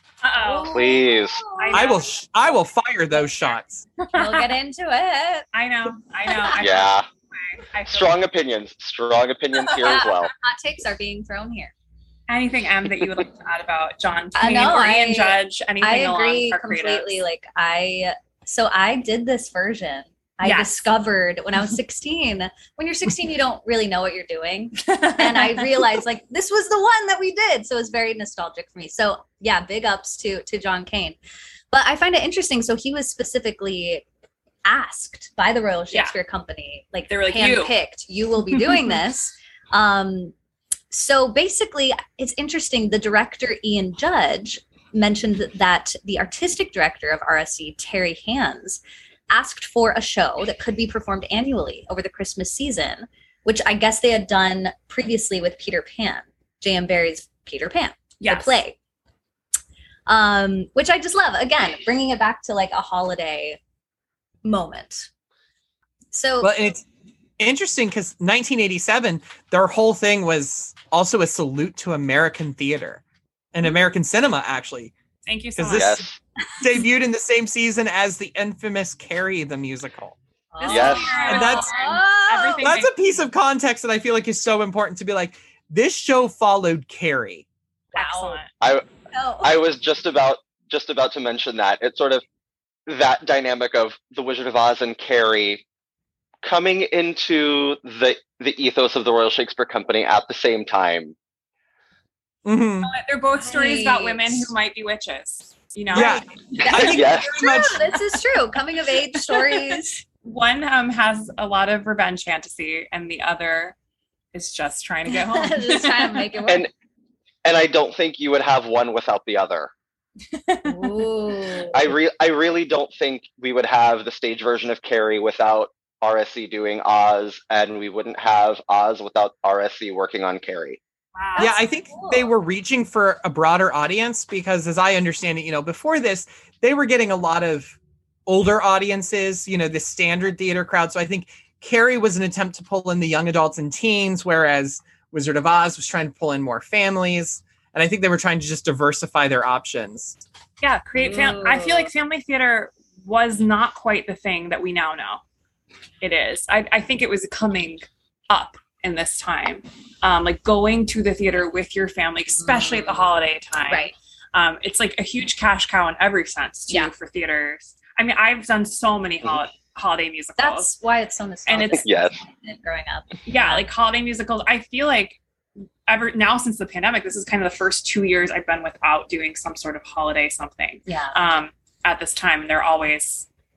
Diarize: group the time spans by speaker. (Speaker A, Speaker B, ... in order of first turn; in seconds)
Speaker A: 0.2-1.0, 1.6-2.0, 4.1-4.5, 5.5-8.2, 9.8-10.1, 12.3-17.1, 20.4-20.7, 24.8-25.8, 37.1-37.7, 58.2-58.5, 75.2-76.0, 80.6-83.0, 87.9-88.5, 102.8-106.2, 109.2-113.7, 114.3-116.3, 120.5-121.0, 131.1-131.5, 150.6-155.2, 156.0-170.7, 171.5-171.8, 173.2-175.2, 175.9-183.3
Speaker B: 0.3-1.9, 4.1-5.5, 6.3-6.6, 9.8-11.7, 14.3-31.2, 31.7-34.0, 34.6-40.3, 40.9-58.8, 60.0-63.6, 64.4-65.1, 66.1-66.5, 80.5-82.7, 87.9-88.4, 89.1-89.6, 103.4-104.5, 106.0-110.0, 115.1-116.7, 120.7-121.9, 131.3-132.3, 151.0-151.9, 162.4-163.1, 163.7-163.9, 170.4-173.7, 180.9-181.2
Speaker C: 0.7-1.4, 6.6-7.0, 7.9-10.3, 75.7-76.2, 80.7-81.2, 88.6-88.8, 89.4-92.2, 92.9-95.6, 96.4-101.1, 106.7-107.4, 117.4-119.7, 121.7-130.8, 171.6-172.2
Speaker D: 1.7-3.9, 66.4-66.8, 67.4-73.0, 73.5-74.9, 75.5-76.1, 76.6-80.2, 81.3-81.7, 82.6-87.5, 102.4-102.9, 105.9-107.9, 131.4-137.8, 138.3-150.2